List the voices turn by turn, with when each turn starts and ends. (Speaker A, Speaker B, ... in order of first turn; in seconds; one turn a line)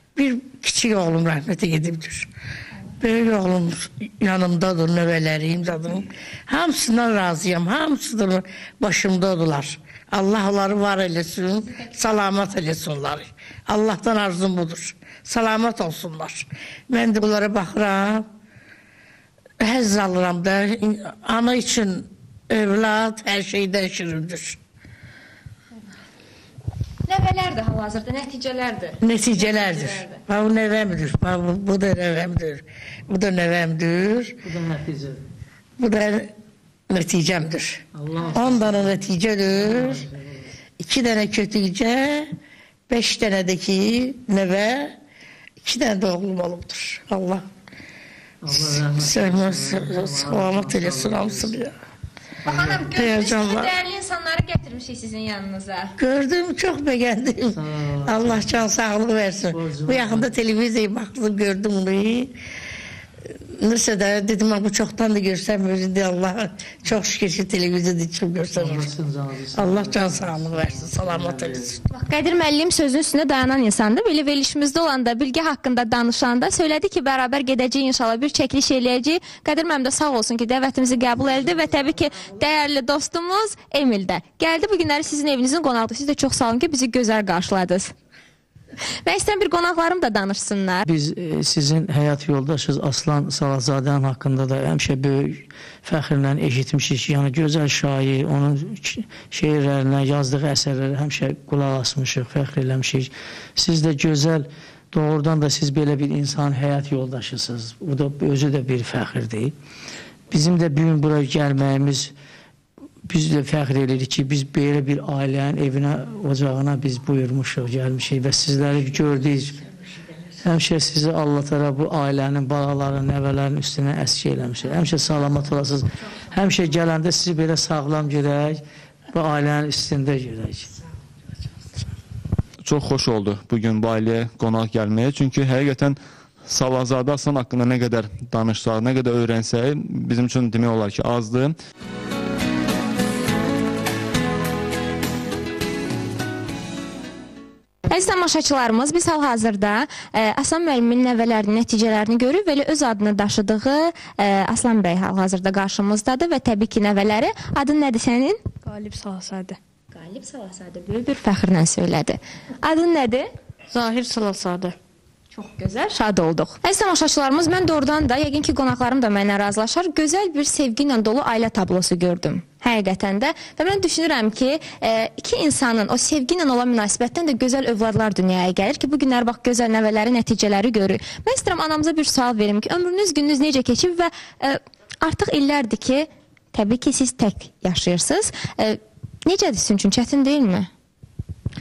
Speaker A: 0.1-2.3
Speaker A: 3.0-18.3
Speaker A: 19.6-24.6
Speaker B: 27.1-30.2
Speaker A: 29.0-34.4
Speaker C: 34.4-35.2
Speaker A: 35.8-36.3
Speaker A: 36.9-40.0
Speaker C: 38.0-40.5
Speaker A: 40.8-42.3
Speaker A: 42.9-45.0
Speaker A: 45.6-47.5
Speaker C: 48.4-51.6
Speaker A: 48.5-51.7
Speaker B: 52.5-55.9
Speaker C: 52.5-52.9
Speaker A: 52.9-53.7
Speaker A: 56.0-62.3
Speaker C: 57.5-58.5
Speaker C: 59.5-60.3
Speaker A: 63.6-68.9
Speaker C: 68.5-71.7
Speaker A: 69.5-71.8
Speaker B: 71.9-87.9
Speaker B: 89.0-90.8
Speaker C: 90.8-109.5
Speaker C: 110.3-112.1
Speaker C: 113.1-119.7
Speaker C: 120.4-130.7
Speaker D: 132.6-141.5
Speaker B: 147.9-164.7
Speaker B: 165.3-190.7